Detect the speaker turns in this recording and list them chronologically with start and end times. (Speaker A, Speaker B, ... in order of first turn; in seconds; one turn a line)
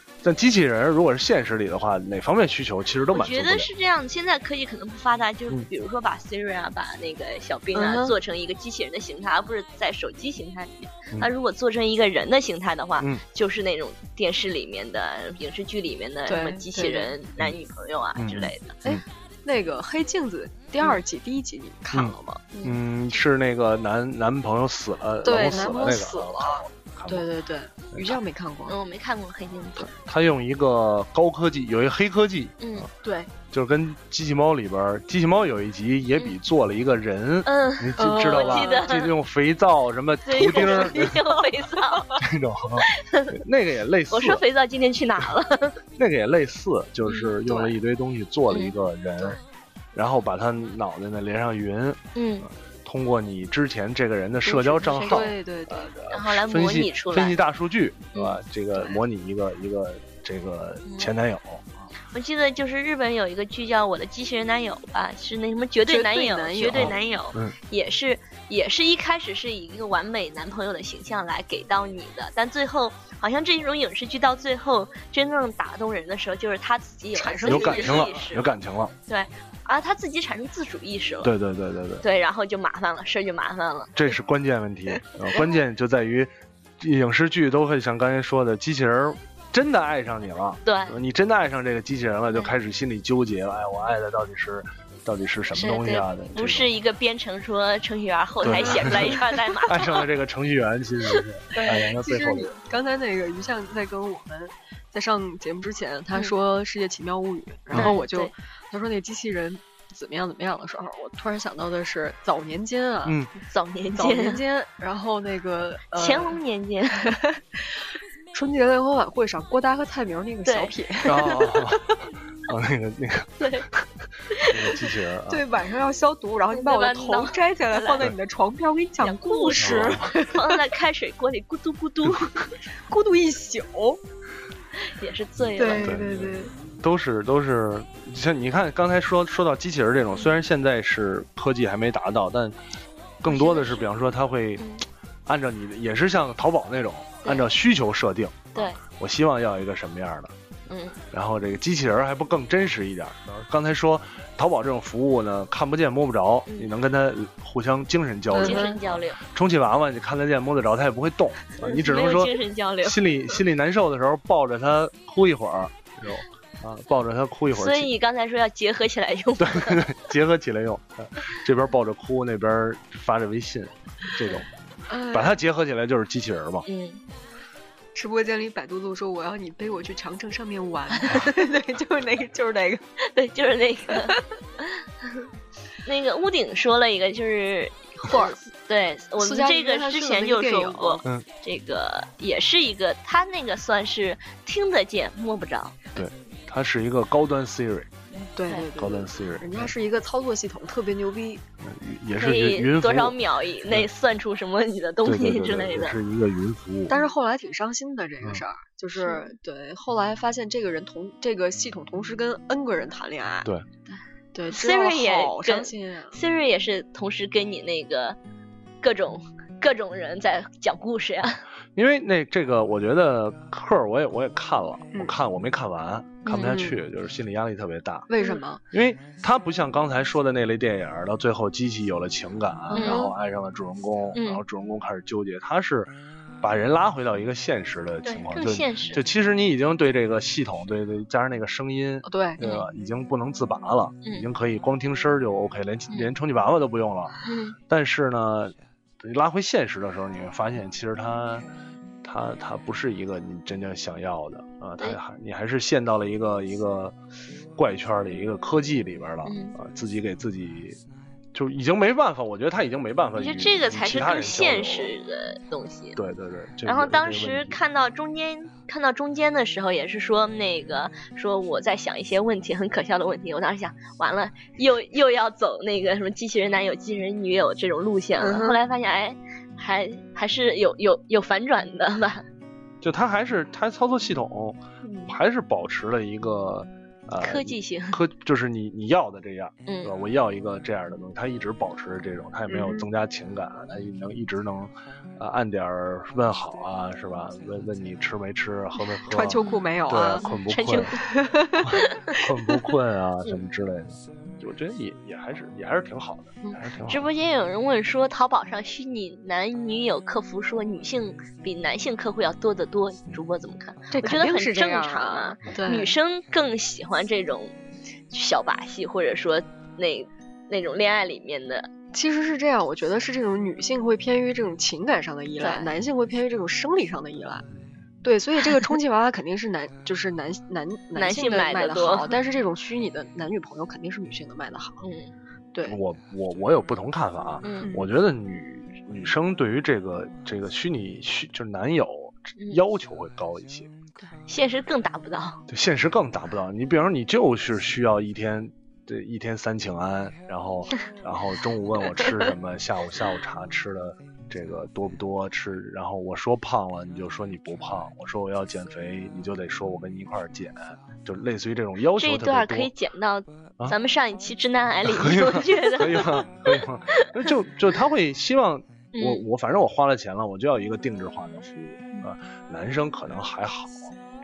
Speaker A: 0.2-3.7
Speaker B: 3.1-18.8
Speaker C: 7.7-8.2
Speaker C: 16.3-17.1
Speaker A: 18.2-19.0
Speaker C: 18.8-22.5
Speaker A: 21.9-27.3
Speaker C: 25.2-28.8
Speaker A: 27.9-28.2
Speaker B: 28.6-29.9
Speaker A: 29.8-32.9
Speaker B: 32.6-32.9
Speaker C: 33.0-33.3
Speaker A: 33.5-41.2
Speaker B: 37.5-39.1
Speaker C: 38.0-38.9
Speaker B: 40.2-42.2
Speaker C: 40.4-41.4
Speaker A: 42.2-44.4
Speaker B: 42.8-43.3
Speaker B: 44.1-45.8
Speaker A: 46.0-49.4
Speaker B: 47.0-47.7
Speaker B: 48.5-48.8
Speaker A: 49.9-61.8
Speaker B: 52.1-52.5
Speaker B: 54.4-55.3
Speaker C: 54.9-55.9
Speaker B: 56.1-57.4
Speaker B: 58.1-58.9
Speaker B: 60.9-61.1
Speaker B: 62.1-78.5
Speaker C: 65.9-67.0
Speaker A: 66.7-67.5
Speaker C: 77.1-78.2
Speaker A: 77.4-78.9
Speaker B: 79.1-81.3
Speaker A: 81.2-82.0
Speaker B: 82.0-84.0
Speaker A: 83.9-96.7
Speaker B: 90.6-91.0
Speaker B: 95.5-100.0
Speaker A: 98.4-102.5
Speaker C: 98.4-99.2
Speaker C: 101.5-113.2
Speaker A: 107.7-108.0
Speaker B: 107.8-108.3
Speaker B: 113.5-114.4
Speaker C: 114.0-116.4
Speaker B: 115.9-117.1
Speaker C: 117.0-117.7
Speaker C: 118.3-121.9
Speaker B: 120.4-121.2
Speaker A: 121.0-122.0
Speaker A: 122.5-123.9
Speaker B: 123.4-123.7
Speaker B: 124.3-124.8
Speaker A: 124.4-125.5
Speaker C: 125.3-130.6
Speaker B: 126.5-128.1
Speaker B: 129.0-132.5
Speaker A: 129.6-130.1
Speaker C: 132.9-134.0
Speaker B: 134.7-136.0
Speaker C: 135.5-136.5
Speaker A: 135.7-142.6
Speaker A: 143.2-144.7
Speaker C: 143.3-143.8
Speaker B: 144.6-144.8
Speaker A: 145.2-150.3
Speaker B: 147.2-147.5
Speaker B: 148.5-148.8
Speaker B: 150.7-151.0
Speaker A: 151.1-167.9
Speaker B: 156.5-156.7
Speaker B: 158.3-159.2
Speaker C: 158.3-158.8
Speaker B: 161.6-163.3
Speaker B: 167.5-169.8
Speaker A: 169.4-174.5
Speaker C: 174.9-175.3
Speaker A: 175.1-176.7
Speaker B: 176.7-177.0
Speaker C: 177.9-182.8
Speaker B: 183.0-184.8
Speaker C: 183.9-184.2
Speaker B: 185.8-195.8
Speaker C: 188.1-188.4
Speaker C: 189.2-191.0
Speaker A: 195.9-197.9
Speaker B: 198.1-198.7
Speaker C: 198.3-201.4
Speaker A: 198.8-199.7
Speaker A: 201.6-203.2
Speaker B: 202.2-206.0
Speaker A: 205.0-207.0
Speaker C: 206.9-213.5
Speaker B: 209.0-209.3
Speaker C: 214.3-216.2
Speaker B: 214.5-218.2
Speaker B: 218.8-221.4
Speaker A: 221.8-228.1
Speaker B: 226.2-226.6
Speaker C: 226.3-226.8
Speaker C: 228.1-228.6
Speaker A: 228.7-251.5
Speaker C: 232.7-233.1
Speaker B: 232.7-233.1
Speaker B: 234.1-234.4
Speaker B: 238.0-239.0
Speaker C: 242.0-242.4
Speaker B: 242.4-242.7
Speaker B: 244.0-244.3
Speaker B: 247.2-247.6
Speaker A: 252.0-257.0
Speaker A: 257.6-260.8
Speaker B: 259.2-259.6
Speaker A: 261.3-264.9
Speaker B: 263.2-266.0
Speaker A: 265.9-267.6
Speaker B: 266.6-282.2
Speaker C: 278.2-278.6
Speaker A: 282.8-300.9
Speaker C: 284.9-285.1
Speaker B: 287.2-288.0
Speaker B: 289.7-289.9
Speaker C: 292.5-292.9
Speaker C: 299.1-300.2
Speaker B: 300.2-301.1
Speaker C: 300.9-301.8
Speaker A: 301.6-307.0
Speaker B: 301.8-302.1
Speaker B: 306.9-317.5
Speaker C: 313.9-315.9
Speaker B: 318.1-321.7
Speaker C: 321.9-327.4
Speaker B: 325.4-325.7
Speaker C: 328.0-334.8
Speaker B: 330.9-332.2
Speaker B: 334.8-335.1
Speaker C: 335.5-335.8
Speaker A: 335.6-343.7
Speaker B: 337.4-337.7
Speaker B: 344.0-345.4
Speaker A: 345.5-362.7
Speaker B: 361.9-367.2
Speaker A: 364.8-373.9
Speaker B: 368.9-369.2